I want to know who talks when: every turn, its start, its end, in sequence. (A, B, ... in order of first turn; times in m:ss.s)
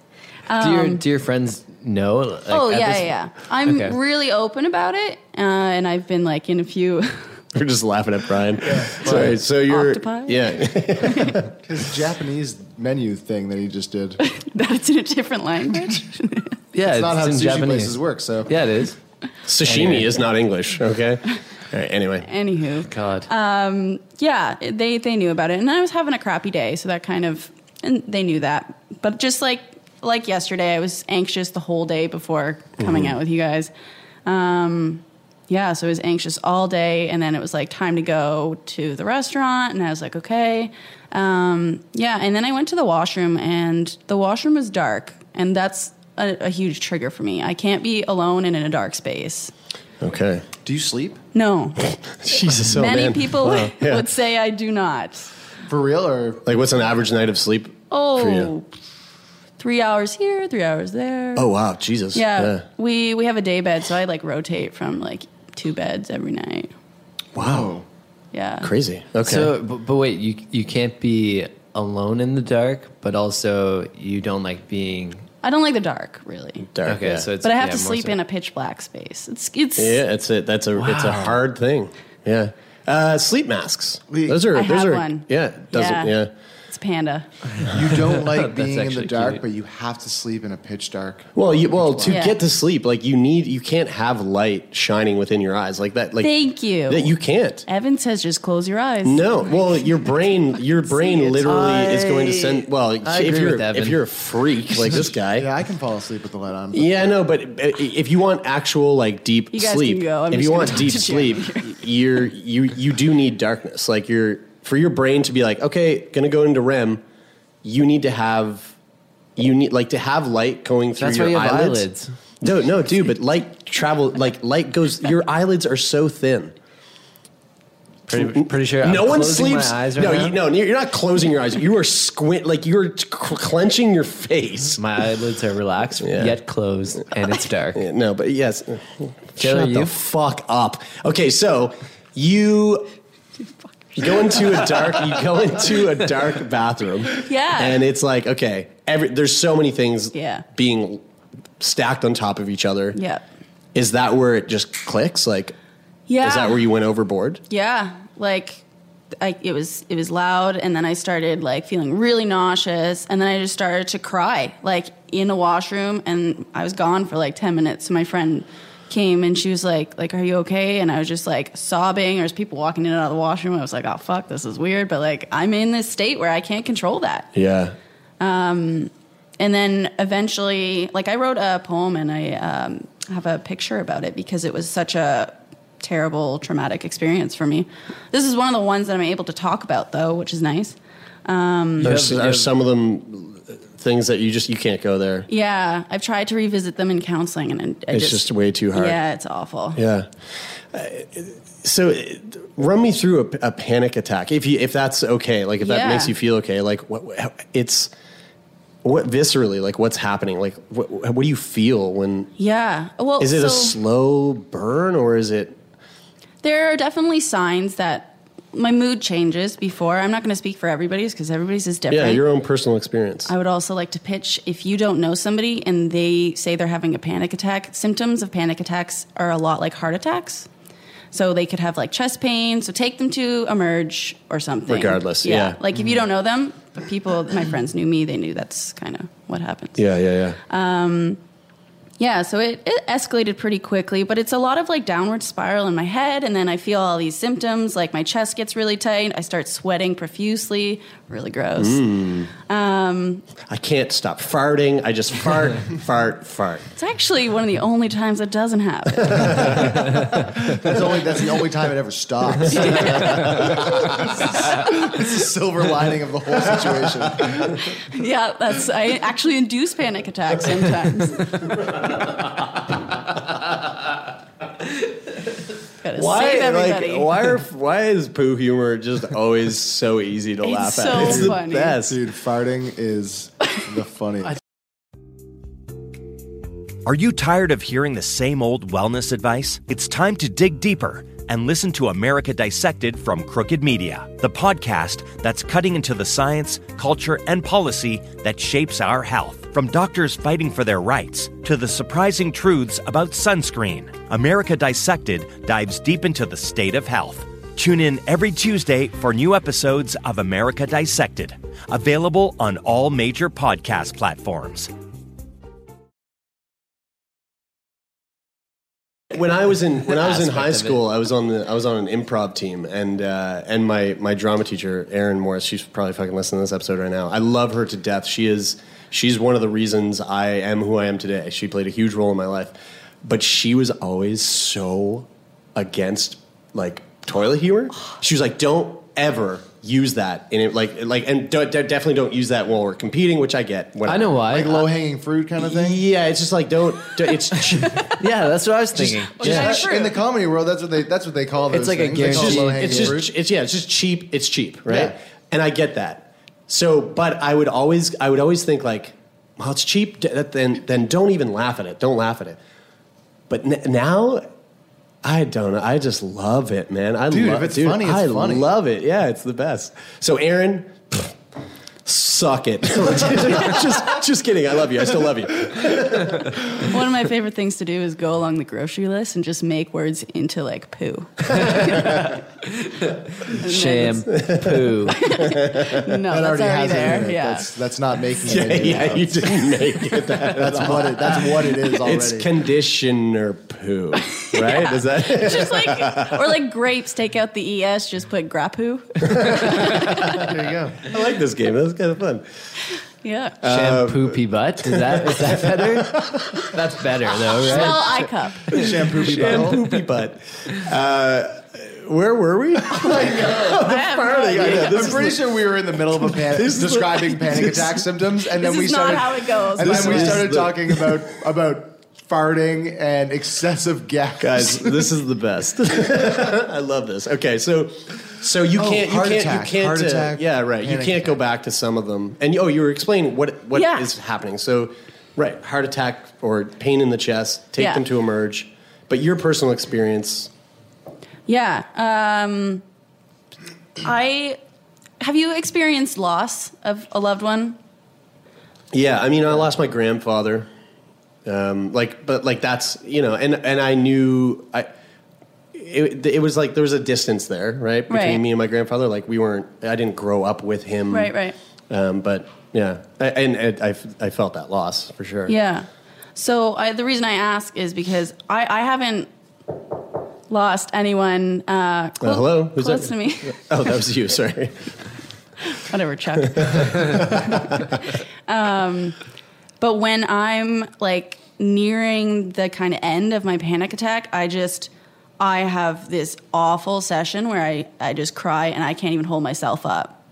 0:00.5-0:01.0 A
0:00.6-0:04.0 B
0:02.5-0:07.3 A
0:07.5-0:11.5 C
0:08.7-0:09.1 D
0:09.0-0:09.4 B
0:09.7-0:11.4 A
0:11.6-0:14.2 D
0:14.2-0:16.5 A
0:16.7-0:19.0 B
0:16.8-0:18.5 D
0:19.5-0:22.3 C
0:19.6-0:20.2 B
0:22.3-0:33.7 A
0:22.9-0:23.3 B
0:32.8-0:33.2 C
0:34.2-0:49.5 A
0:50.0-0:50.4 C
0:50.6-0:51.2 D
0:51.3-0:51.9 A
0:52.1-0:54.1 C
0:52.6-0:55.3 A
0:55.7-0:56.4 D
0:56.4-0:58.5 C
0:57.9-0:58.7 A
0:59.6-1:01.5 A
1:01.4-1:02.6 C
1:02.1-1:06.7 A
1:07.4-1:07.8 C
1:07.4-1:07.8 D
1:08.3-1:08.7 A
1:08.6-1:09.5 C
1:09.2-1:15.3 B
1:15.4-1:16.7 A
1:16.7-1:17.3 C
1:16.8-1:18.2 B
1:17.4-1:20.0 A
1:19.8-1:26.3 C
1:20.8-1:21.4 B
1:24.1-1:24.5 D
1:24.5-1:26.2 A
1:26.7-1:27.3 A
1:27.6-1:29.4 B
1:27.6-1:32.2 D
1:31.4-1:37.6 C
1:32.1-1:32.4 A
1:36.2-1:42.5 A
1:39.0-1:45.5 C
1:43.0-1:44.2 B
1:45.3-1:47.1 D
1:46.7-1:57.0 C
1:49.5-1:51.8 A
1:57.6-1:58.8 C
1:59.4-2:01.9 C
2:01.0-2:02.1 B
2:02.4-2:06.6 C
2:08.1-2:10.4 B
2:08.1-2:14.8 C
2:14.8-2:17.8 B
2:16.0-2:16.4 C
2:17.8-2:22.9 C
2:19.4-2:20.0 B
2:24.0-2:31.0 C
2:24.0-2:24.3 A
2:27.2-2:27.8 A
2:30.1-2:30.4 A
2:31.6-2:33.0 C
2:33.0-2:33.2 A
2:33.7-2:35.6 C
2:36.1-2:36.6 A
2:36.2-2:37.4 C
2:37.5-2:38.6 A
2:39.2-2:57.3 A
2:57.3-2:57.8 C
2:58.2-3:11.9 A
3:11.8-3:12.5 B
3:11.8-3:15.3 C
3:15.3-3:19.8 A
3:17.9-3:19.0 C
3:19.8-3:27.9 C
3:25.6-3:26.2 A
3:28.8-3:32.3 C
3:32.4-3:33.8 A
3:33.2-3:35.6 C
3:36.4-3:42.2 A
3:41.9-3:43.3 C
3:43.3-3:50.5 A
3:51.1-3:59.8 A
3:54.7-3:55.6 C
3:59.8-4:00.4 C
4:00.5-4:01.2 A
4:02.0-4:13.2 A
4:11.6-4:12.3 C
4:13.5-4:16.7 C
4:16.8-4:19.7 A
4:19.1-4:19.8 C
4:20.5-4:27.7 D
4:22.5-4:24.3 A
4:27.8-4:31.4 A
4:35.8-4:37.1 A
4:35.9-4:42.0 C
4:40.4-4:41.8 A
4:40.9-4:44.4 D
4:46.8-5:14.7 E
5:19.1-5:44.1 C
5:20.0-5:20.8 B
5:43.9-5:44.7 B
5:44.3-5:45.8 D
5:45.4-5:48.0 C
5:48.0-5:49.4 B
5:48.8-5:53.1 D
5:49.1-5:50.0 A
5:49.2-5:49.7 C
5:51.5-5:53.0 B
5:52.0-6:02.4 C
5:54.7-5:55.0 D
6:03.3-6:04.3 C
6:05.0-6:11.2 C
6:07.1-6:08.5 D
6:11.8-6:16.4 C
6:16.6-6:22.2 A
6:21.3-6:21.9 C
6:23.3-6:24.1 A
6:23.3-6:25.0 B
6:24.1-6:25.9 C
6:24.9-6:27.5 A
6:26.1-6:29.5 D
6:28.2-6:36.3 C
6:30.1-6:32.3 D
6:34.1-6:40.3 A
6:39.0-6:42.2 C
6:40.2-6:40.8 D
6:43.0-6:43.4 A
6:43.4-6:46.6 C
6:43.4-6:47.8 B
6:47.2-6:47.9 C
6:47.5-6:48.5 A
6:48.5-6:57.8 C
6:48.5-6:49.6 D
6:52.7-7:04.9 D
6:53.6-6:54.9 A
6:58.3-7:00.4 A
6:59.6-7:01.0 C
7:04.2-7:20.3 C
7:08.5-7:11.2 D
7:13.5-7:13.9 A
7:17.6-7:17.8 A
7:21.3-7:22.6 A
7:23.8-7:24.4 A
7:25.0-7:27.6 A
7:28.7-7:30.5 C
7:31.2-7:34.7 C
7:35.5-7:41.1 C
7:37.9-7:38.2 A
7:40.9-7:41.4 A
7:41.7-7:45.4 C
7:45.3-7:49.1 A
7:50.3-7:53.5 A
7:52.0-7:54.7 C
7:55.4-7:57.7 A
7:56.2-7:57.8 C
7:58.3-7:59.0 A
7:59.6-8:10.0 A